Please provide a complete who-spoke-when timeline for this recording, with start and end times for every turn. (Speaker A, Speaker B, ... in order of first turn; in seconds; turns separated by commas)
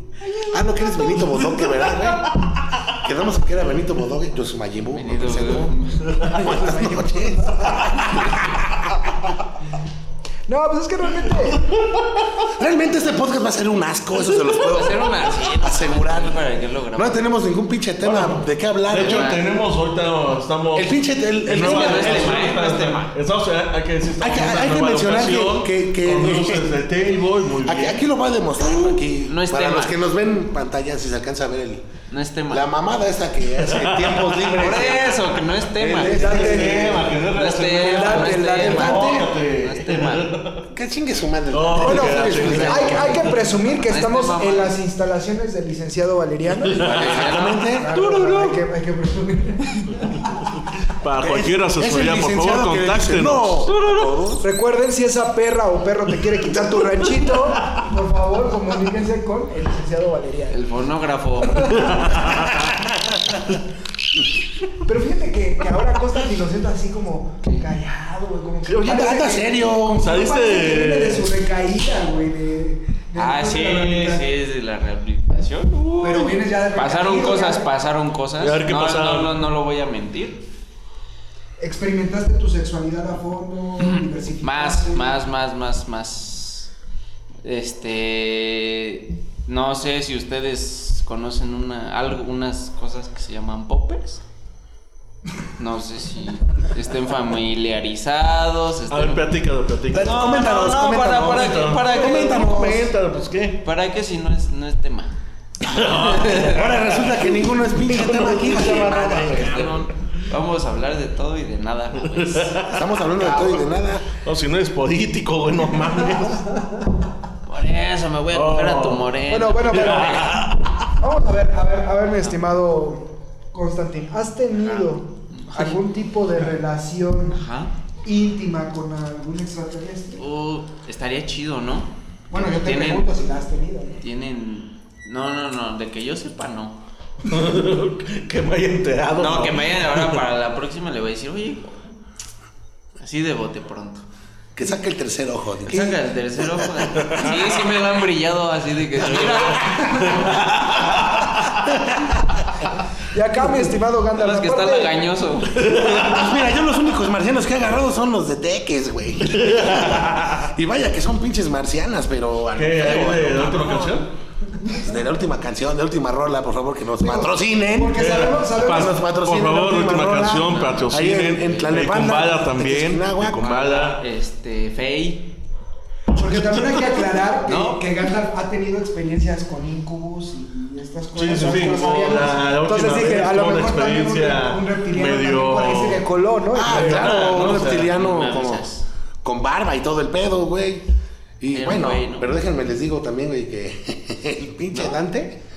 Speaker A: 0.3-9.0, Speaker B: 4.9-6.3, Speaker C: 6.4-7.7, Speaker C: 10.5-11.7, Speaker A: 12.5-19.4, Speaker B: 14.5-17.3, Speaker D: 18.0-28.0, Speaker B: 18.9-19.4, Speaker A: 20.7-22.5, Speaker B: 21.5-23.1, Speaker A: 24.2-26.7, Speaker A: 27.6-31.8, Speaker B: 28.7-30.0, Speaker B: 32.1-32.7, Speaker A: 32.5-36.8, Speaker D: 33.6-34.5, Speaker B: 34.6-40.3, Speaker C: 35.9-37.1, Speaker D: 36.1-40.7, Speaker C: 37.7-39.2, Speaker A: 40.7-43.2, Speaker D: 41.5-43.3, Speaker C: 41.8-46.9, Speaker B: 42.5-44.8, Speaker D: 46.7-47.1, Speaker A: 46.8-47.9, Speaker B: 46.8-48.6, Speaker C: 47.6-50.4, Speaker D: 50.9-53.7, Speaker A: 51.2-54.4, Speaker C: 54.4-60.6, Speaker B: 60.5-61.9, Speaker C: 61.4-62.5, Speaker D: 61.7-62.6, Speaker C: 64.8-74.2, Speaker A: 68.6-70.1, Speaker D: 69.8-71.4, Speaker B: 73.2-80.4, Speaker C: 76.0-77.7, Speaker D: 78.4-79.3, Speaker C: 81.6-85.2, Speaker B: 84.4-86.7, Speaker B: 87.4-94.2, Speaker B: 95.6-99.3, Speaker D: 98.9-103.6, Speaker C: 99.9-102.8, Speaker B: 100.0-102.5, Speaker A: 101.8-102.9, Speaker B: 103.6-105.2, Speaker D: 105.6-109.7, Speaker B: 105.8-106.7, Speaker A: 105.8-109.8, Speaker C: 108.2-109.6, Speaker B: 108.5-112.6, Speaker D: 112.0-112.9, Speaker A: 112.7-114.1, Speaker D: 114.2-116.6, Speaker C: 116.5-116.8, Speaker B: 117.4-120.4, Speaker D: 118.3-119.1, Speaker C: 119.3-127.4, Speaker D: 119.7-120.6, Speaker B: 124.6-125.8, Speaker B: 127.3-127.7, Speaker C: 128.0-130.2, Speaker B: 130.2-133.1, Speaker C: 132.3-134.0, Speaker B: 134.0-136.8, Speaker D: 137.2-140.2, Speaker B: 139.2-141.8, Speaker B: 143.0-144.0, Speaker A: 144.5-146.0, Speaker B: 145.7-150.4, Speaker A: 146.6-146.8, Speaker D: 147.0-147.5, Speaker D: 149.2-151.2, Speaker C: 149.5-150.2, Speaker A: 151.7-152.2, Speaker C: 153.1-155.0, Speaker B: 154.1-156.1, Speaker D: 155.5-156.4, Speaker A: 155.8-164.0, Speaker D: 159.2-160.4, Speaker D: 162.5-164.1, Speaker A: 164.7-173.5, Speaker C: 167.0-169.0, Speaker D: 167.9-174.0, Speaker B: 170.5-170.9, Speaker B: 173.4-175.3, Speaker C: 176.1-187.2, Speaker D: 176.3-176.8, Speaker B: 177.4-177.8, Speaker D: 181.1-187.9, Speaker A: 186.5-188.6, Speaker B: 187.3-188.8, Speaker A: 189.2-190.8, Speaker A: 191.4-195.4, Speaker B: 191.5-192.3